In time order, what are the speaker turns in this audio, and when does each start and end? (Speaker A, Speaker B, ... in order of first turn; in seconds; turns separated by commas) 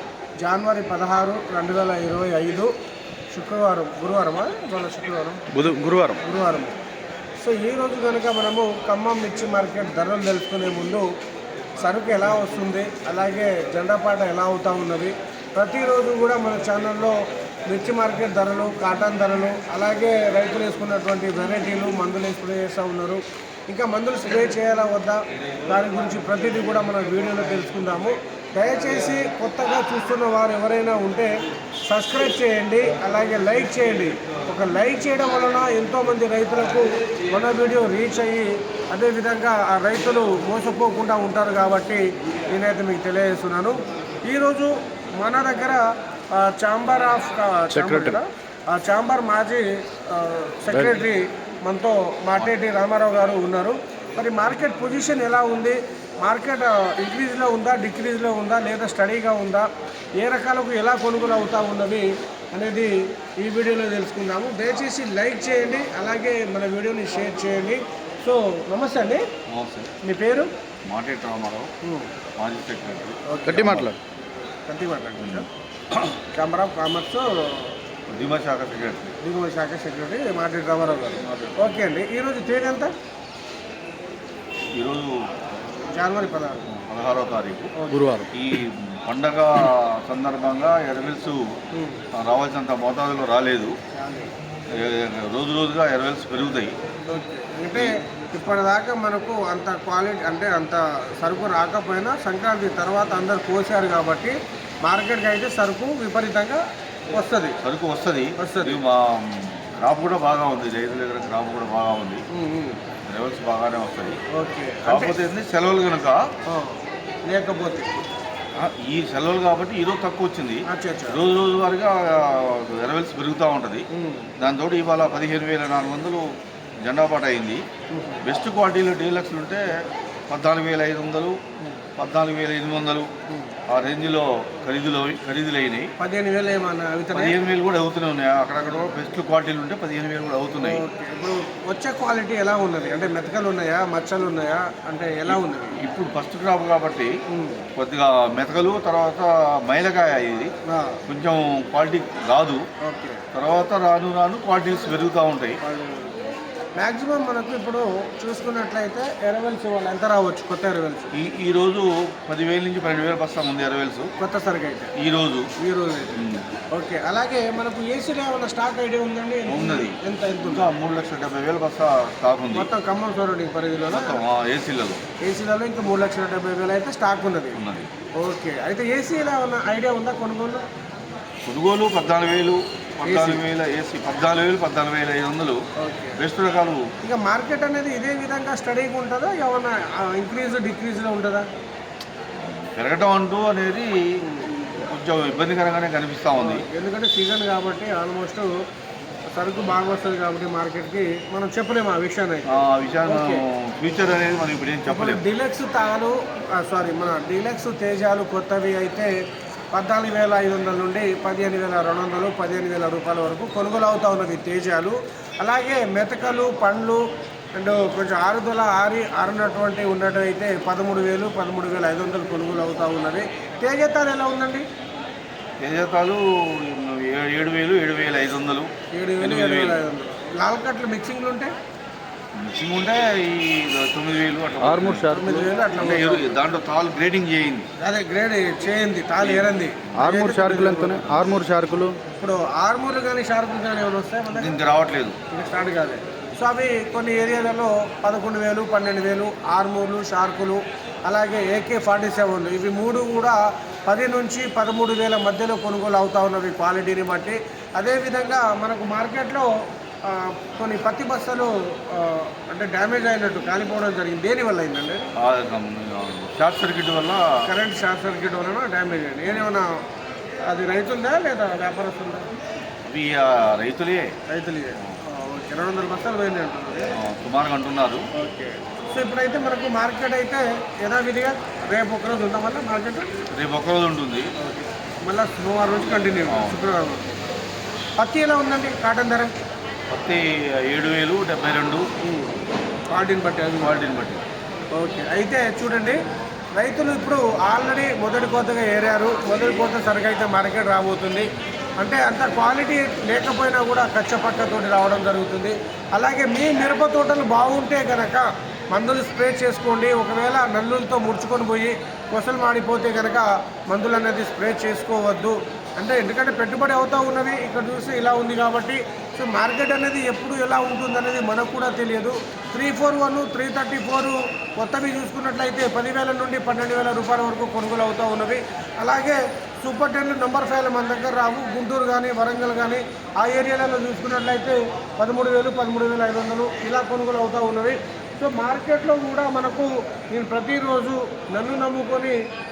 Speaker A: 0.4-2.7, Speaker A: 3.3-5.4, Speaker B: 5.5-6.2, Speaker A: 6.2-6.8, Speaker A: 7.4-11.1, Speaker A: 11.8-31.3, Speaker A: 31.9-69.2, Speaker C: 47.7-48.2, Speaker B: 69.5-69.9, Speaker A: 70.0-70.5, Speaker B: 70.8-71.7, Speaker A: 71.8-72.1, Speaker B: 72.4-73.9, Speaker A: 73.2-73.8, Speaker C: 73.5-74.0, Speaker A: 74.7-75.5, Speaker B: 75.2-75.4, Speaker A: 76.3-77.8, Speaker B: 78.1-79.1, Speaker A: 79.2-82.9, Speaker B: 81.2-81.8, Speaker B: 84.7-85.2, Speaker A: 85.9-86.7, Speaker B: 86.7-87.7, Speaker A: 87.8-88.1, Speaker C: 87.9-88.3, Speaker B: 88.3-91.5, Speaker A: 91.7-92.0, Speaker B: 92.1-93.8, Speaker A: 93.9-94.3, Speaker B: 94.7-96.7, Speaker A: 97.1-107.6, Speaker B: 107.6-112.2, Speaker A: 108.4-108.8, Speaker A: 112.3-112.8, Speaker B: 113.1-114.2, Speaker A: 114.3-115.2, Speaker B: 114.8-116.3, Speaker A: 116.5-118.0, Speaker B: 118.5-123.8, Speaker A: 120.7-121.2, Speaker A: 123.9-124.3, Speaker B: 124.4-126.3, Speaker B: 126.8-127.6, Speaker A: 127.9-128.2, Speaker B: 128.2-129.8, Speaker B: 130.3-131.4, Speaker B: 132.0-133.1, Speaker B: 133.7-135.9, Speaker A: 136.0-137.4, Speaker B: 137.1-140.8, Speaker A: 140.6-145.8, Speaker B: 145.3-147.1, Speaker A: 147.3-147.6, Speaker B: 147.8-150.5, Speaker A: 150.7-151.0, Speaker B: 151.1-152.6, Speaker A: 152.8-153.2, Speaker B: 153.3-155.6, Speaker A: 155.6-161.1, Speaker B: 161.1-164.1, Speaker A: 164.2-164.9, Speaker B: 165.0-165.5, Speaker A: 165.6-166.2, Speaker B: 166.1-166.4, Speaker A: 166.7-170.7, Speaker B: 169.5-172.7, Speaker A: 172.5-174.2, Speaker B: 173.9-175.0, Speaker A: 175.2-177.6, Speaker B: 177.6-177.9, Speaker A: 178.2-180.6, Speaker B: 181.4-185.6, Speaker A: 183.0-183.4, Speaker A: 185.8-186.2, Speaker B: 186.2-186.8, Speaker A: 187.0-191.5, Speaker B: 192.4-196.6, Speaker A: 196.4-198.5, Speaker A: 199.3-203.4, Speaker B: 202.5-205.2, Speaker A: 204.9-209.1, Speaker A: 209.7-217.0, Speaker A: 217.6-224.6, Speaker B: 225.6-228.7, Speaker A: 228.9-231.5, Speaker B: 229.2-229.8, Speaker B: 232.4-235.2, Speaker C: 234.6-235.5, Speaker A: 235.1-236.3, Speaker B: 235.7-237.7, Speaker A: 237.8-241.0, Speaker B: 239.2-240.1, Speaker C: 240.0-242.0, Speaker A: 242.2-244.6, Speaker B: 244.3-245.2, Speaker A: 245.3-259.5, Speaker A: 260.1-265.1, Speaker B: 265.2-267.4, Speaker A: 267.4-269.8, Speaker A: 270.4-272.3, Speaker B: 272.9-274.1, Speaker A: 274.3-276.9, Speaker B: 276.9-278.1, Speaker A: 278.1-283.1, Speaker B: 283.3-284.3, Speaker A: 284.4-287.1, Speaker B: 286.3-286.6, Speaker A: 288.0-289.3, Speaker B: 289.9-291.9, Speaker A: 292.0-292.4, Speaker A: 292.9-293.8, Speaker B: 293.6-294.2, Speaker A: 294.8-296.0, Speaker A: 296.6-301.3, Speaker A: 301.8-342.1